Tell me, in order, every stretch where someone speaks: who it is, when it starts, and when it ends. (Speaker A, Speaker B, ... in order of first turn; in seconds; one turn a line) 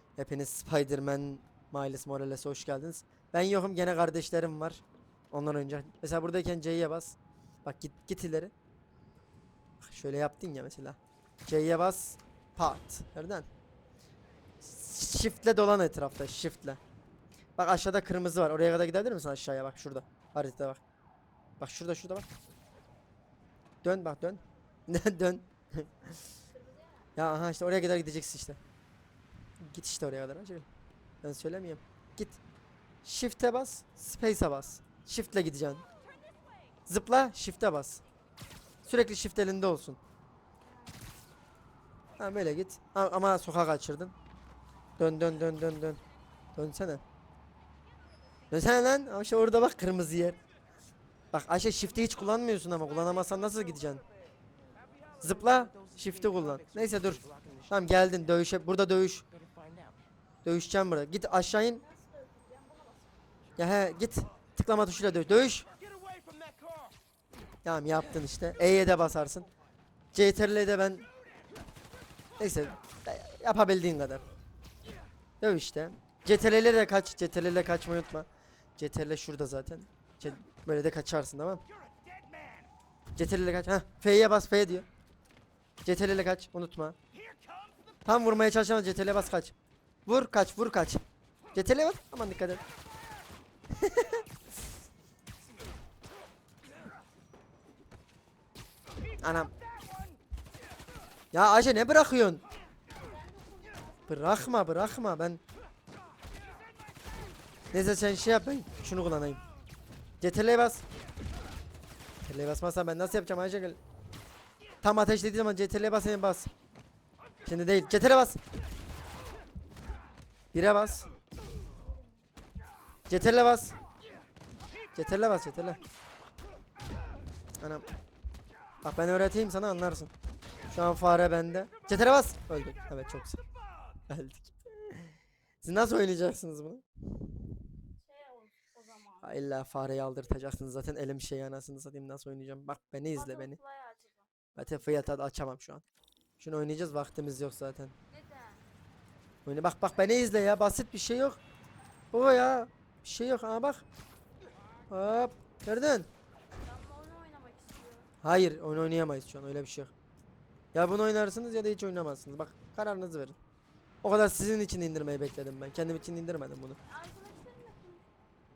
Speaker A: 0.2-8.5
Speaker A: 9.8-13.5
Speaker A: 14.6-16.8
Speaker A: 17.6-20.8
Speaker A: 21.6-22.3
Speaker A: 23.8-25.9
Speaker B: 26.6-27.1
Speaker A: 27.1-28.6
Speaker A: 29.6-30.6
Speaker A: 31.2-32.4
Speaker A: 33.0-35.8
Speaker A: 36.9-38.0
Speaker A: 38.8-40.0
Speaker A: 42.2-44.1
Speaker A: 45.0-46.0
Speaker A: 46.5-47.0
Speaker A: 48.5-50.4
Speaker A: 51.3-54.0
Speaker A: 55.2-59.2
Speaker B: 59.6-60.0
Speaker A: 60.4-61.8
Speaker B: 61.8-63.2
Speaker A: 63.6-65.7
Speaker B: 66.0-66.9
Speaker A: 67.6-69.5
Speaker A: 70.1-71.1
Speaker A: 72.4-74.2
Speaker A: 75.4-81.6
Speaker A: 83.2-84.8
Speaker A: 85.8-87.0
Speaker A: 88.0-89.5
Speaker A: 90.0-91.0
Speaker A: 91.5-92.6
Speaker A: 93.7-94.2
Speaker A: 99.2-99.5
Speaker A: 101.3-102.4
Speaker B: 102.9-104.1
Speaker A: 104.1-105.4
Speaker A: 107.7-109.4
Speaker A: 110.2-110.8
Speaker A: 112.2-113.8
Speaker A: 114.8-116.5
Speaker A: 117.5-118.4
Speaker A: 120.5-121.1
Speaker A: 123.1-123.8
Speaker A: 124.9-125.8
Speaker A: 127.6-127.9
Speaker A: 128.8-130.1
Speaker A: 130.7-133.4
Speaker A: 134.1-135.1
Speaker A: 135.6-137.3
Speaker B: 138.0-139.2
Speaker A: 139.2-143.6
Speaker B: 143.1-144.3
Speaker A: 144.5-145.8
Speaker A: 146.4-147.9
Speaker B: 148.1-148.6
Speaker A: 149.4-151.4
Speaker A: 152.1-153.8
Speaker A: 154.9-156.1
Speaker B: 156.6-158.1
Speaker A: 158.2-159.9
Speaker A: 160.7-163.4
Speaker A: 164.0-166.8
Speaker B: 166.9-168.1